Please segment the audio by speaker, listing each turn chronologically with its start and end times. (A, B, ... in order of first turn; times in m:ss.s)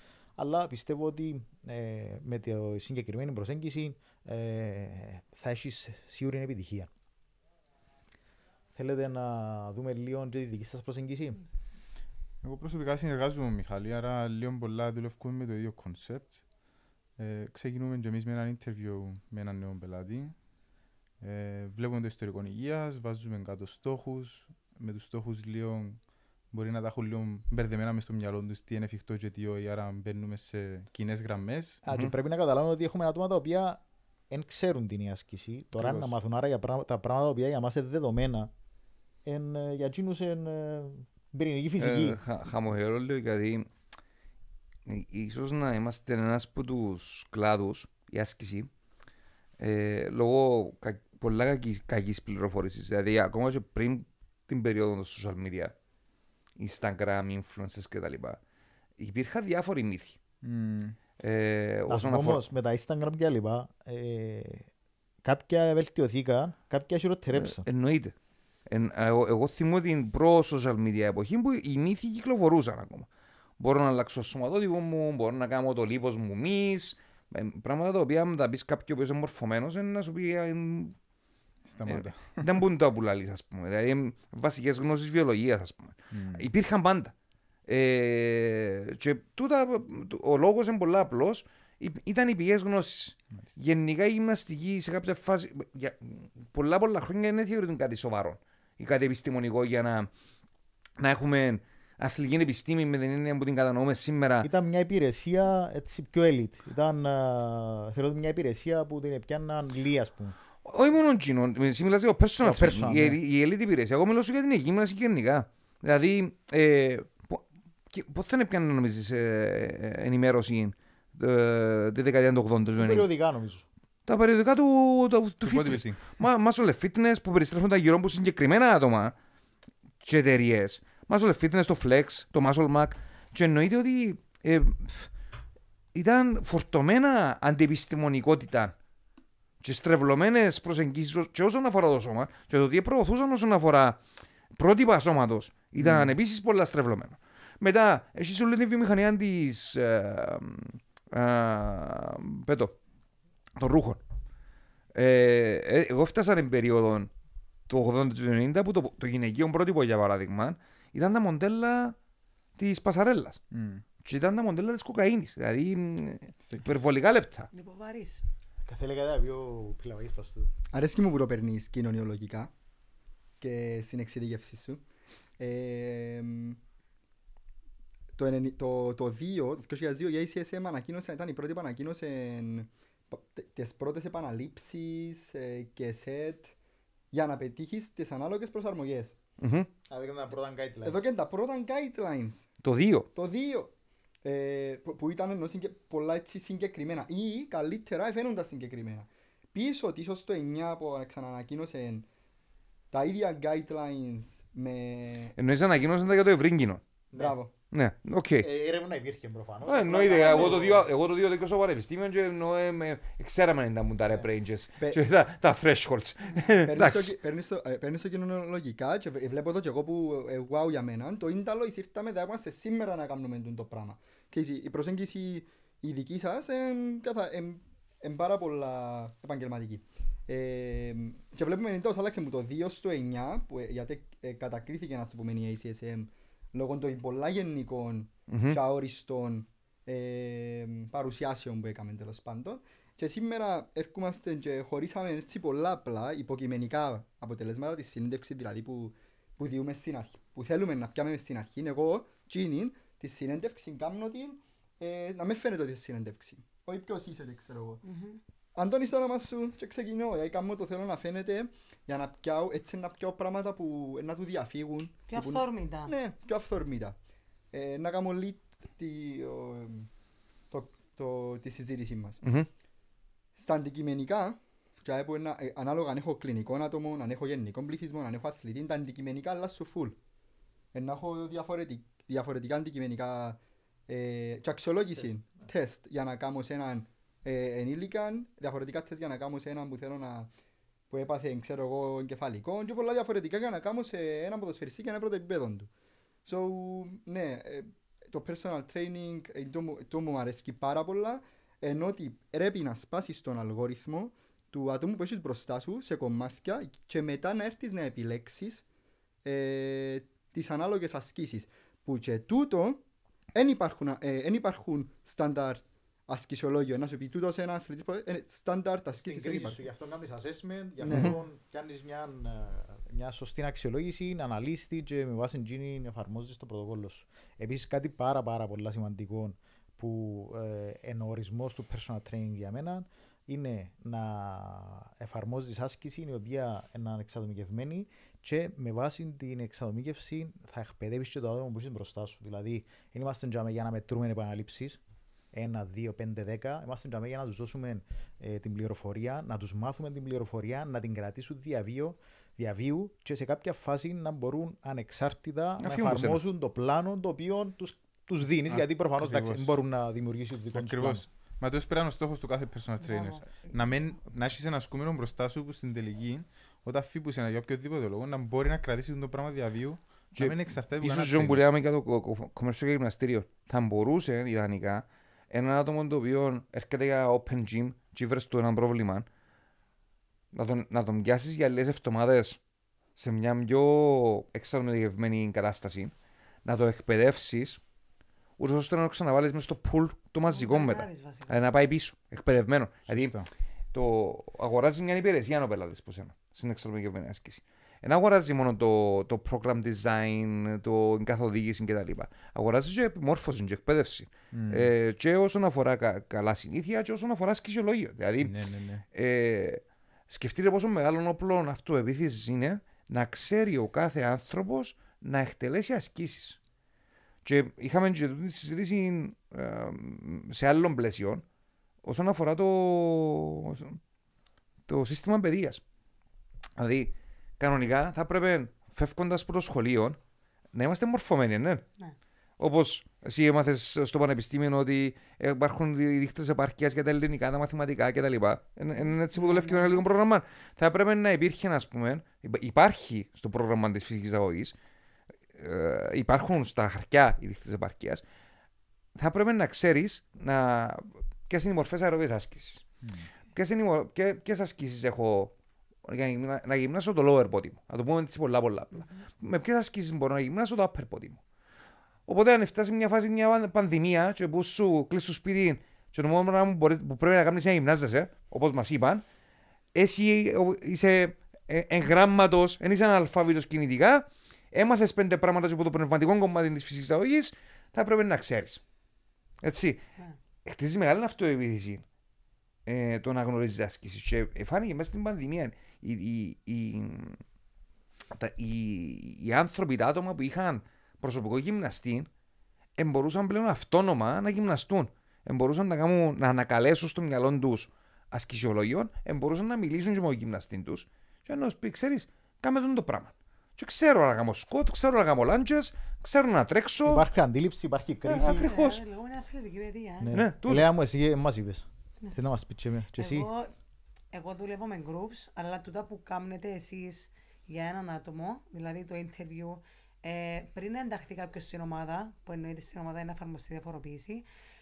0:00.4-0:06.9 A
0:08.8-0:11.4 A
0:12.4-0:16.4 B
0:17.2-0:20.4 B
0:21.2-0:26.0 B
0:26.5-0:31.8 B
0:31.8-0:38.5 A
0:35.8-0:36.2 B
0:39.2-0:42.2 A
0:41.8-0:43.7 C
0:44.9-0:48.7 C
0:49.6-0:55.7 C
0:56.6-0:58.4 C
0:59.0-1:00.2 C
1:00.4-1:01.0 B
1:01.2-1:02.4 C
1:01.9-1:04.7 A
1:05.2-1:07.6 A
1:07.3-1:08.2 C
1:08.7-1:13.1 C
1:13.6-1:21.0 C
1:21.6-1:22.5 B
1:21.8-1:27.1 C
1:26.1-1:26.5 B
1:27.7-1:40.1 C
1:41.0-1:44.5 C
1:44.4-1:50.4 A
1:50.6-2:03.1 C
1:52.4-1:53.2 A
2:02.8-2:03.6 A
2:04.1-2:09.2 C
2:05.4-2:06.0 B
2:10.0-2:15.1 C
2:15.9-2:18.8 C
2:19.6-2:24.0 C
2:24.5-2:32.8 C
2:25.8-2:26.1 B
2:33.6-2:34.0 C
2:34.9-2:37.1 C
2:37.7-2:42.0 C
2:42.6-2:43.4 C
2:43.5-2:43.8 B
2:44.0-2:47.5 C
2:46.4-2:46.8 B
2:47.5-2:48.2 D
2:48.6-2:50.5 A
2:50.7-2:52.5 E
2:53.4-2:54.8 E
2:55.4-2:56.6 E
2:58.2-3:06.5 E
3:07.1-3:09.2 E
3:09.4-3:09.7 C
3:09.9-3:11.0 A
3:10.8-3:12.5 E
3:12.6-3:13.1 C
3:13.2-3:13.7 E
3:14.2-3:22.1 E
3:22.9-3:25.3 E
3:25.4-3:26.8 C
3:27.2-3:27.5 E
3:27.7-3:28.5 C
3:28.4-3:30.8 A
3:29.7-3:37.2 C
3:30.0-3:30.8 E
3:36.7-4:17.8 E
3:58.3-3:58.6 C
4:17.8-4:18.2 D
4:18.6-4:27.0 E
4:25.1-4:25.9 D
4:27.5-4:29.9 E
4:30.5-4:32.2 E
4:32.2-4:32.5 C
4:33.4-4:40.0 E
4:40.7-4:50.3 E
4:50.9-4:55.7 E
4:56.3-5:08.6 E
5:09.2-5:12.8 E
5:13.3-5:19.6 E
5:18.9-5:44.8 A
5:20.8-5:21.1 E
5:45.3-6:01.0 A
5:55.6-5:56.2 C
5:58.5-5:59.6 B
6:00.5-6:11.4 B
6:02.8-6:03.4 D
6:10.2-6:19.1 C
6:20.3-6:22.4 C
6:23.0-6:25.9 C
6:26.4-6:27.6 C
6:28.4-6:33.2 C
6:30.3-6:31.4 D
6:32.9-6:33.3 B
6:33.7-6:48.4 C
6:44.3-6:44.7 B
6:48.2-6:48.8 B
6:48.9-6:56.4 C
6:57.2-7:01.2 C
7:01.8-7:03.8 C
7:04.7-7:05.6 C
7:06.6-7:10.0 C
7:10.5-7:11.6 C
7:12.4-7:24.6 C
7:18.8-7:19.8 D
7:25.4-7:28.0 C
7:29.0-7:32.7 C
7:33.4-7:35.3 C
7:35.8-7:41.2 C
7:38.8-7:39.0 D
7:42.1-7:49.0 C
7:49.7-7:58.6 C
7:59.4-7:59.8 C
8:00.4-8:01.8 C
8:02.7-8:07.2 C
8:08.1-8:12.1 C
8:12.8-8:27.0 C
8:26.9-8:28.5 A
8:28.1-8:28.8 C
8:28.1-8:30.1 D
8:30.0-8:33.3 A
8:30.1-8:30.7 C
8:32.0-8:32.3 D
8:33.0-8:33.5 D
8:34.1-8:44.2 D